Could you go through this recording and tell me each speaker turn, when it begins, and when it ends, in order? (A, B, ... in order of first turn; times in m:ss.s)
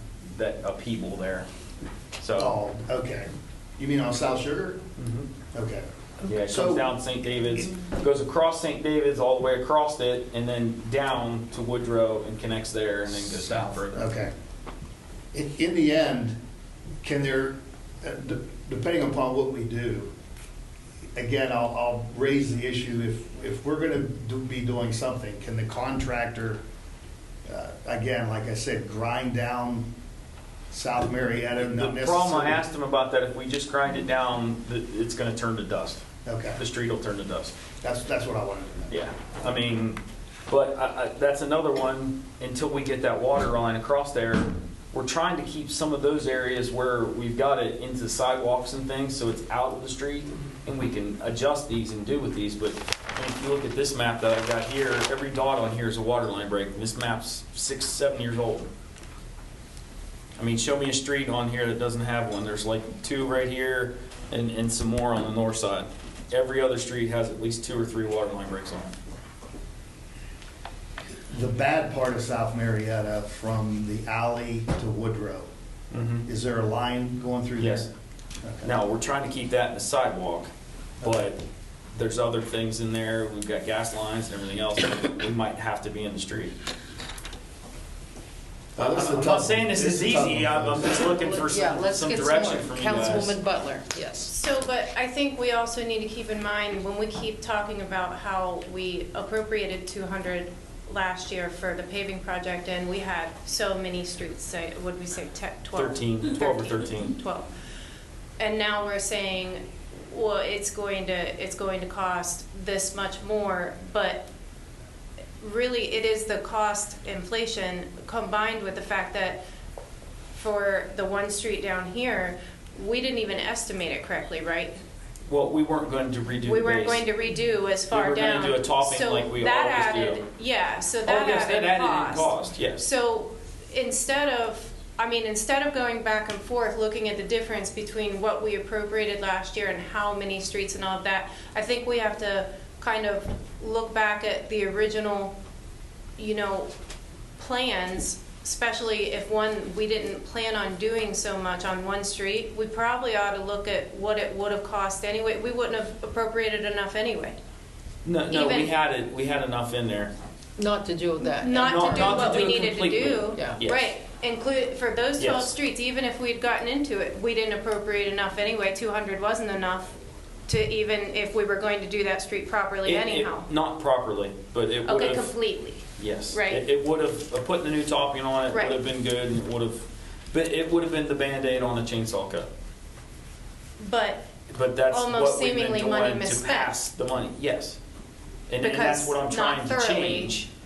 0:00.3-0:01.5 A
0:02.2-0:02.6 A
0:02.4-0:04.8 B
0:05.0-0:05.3 A
0:05.5-0:06.9 B
0:06.2-0:14.0 A
0:13.4-0:14.3 B
0:15.3-0:16.4 B
0:17.0-0:20.1 B
0:21.2-0:26.6 B
0:27.5-0:29.9 B
0:30.7-0:32.6 B
0:31.6-0:37.6 A
0:36.2-0:36.6 B
0:37.8-0:38.9 B
0:38.9-0:58.7 A
1:00.4-1:08.9 A
1:11.3-1:15.5 B
1:15.9-1:16.3 A
1:16.3-1:17.9 B
1:17.6-1:17.9 A
1:18.4-1:18.7 B
1:18.6-1:20.5 A
1:21.0-1:21.4 A
1:21.9-1:26.5 A
1:28.8-1:31.1 B
1:28.8-1:33.4 A
1:31.2-1:34.3 C
1:34.3-1:47.5 D
1:45.8-1:47.1 A
1:48.4-1:54.3 D
1:55.4-1:59.4 D
2:00.4-2:04.8 D
2:05.3-2:07.0 A
2:06.4-2:25.3 D
2:07.9-2:10.2 A
2:11.0-2:12.9 A
2:26.2-2:26.7 D
2:27.4-2:37.4 D
2:38.0-2:40.1 A
2:38.3-2:38.7 D
2:40.6-2:42.6 C
2:41.4-2:50.0 D
2:41.6-2:44.0 A
2:43.3-2:43.6 C
2:45.2-2:45.5 A
2:50.5-2:53.5 D
2:52.8-2:55.3 A
2:54.8-2:56.6 D
2:56.0-3:02.5 A
3:03.8-3:04.3 D
3:04.5-3:07.8 A
3:04.9-3:06.8 D
3:08.5-3:10.5 A
3:08.6-3:10.3 D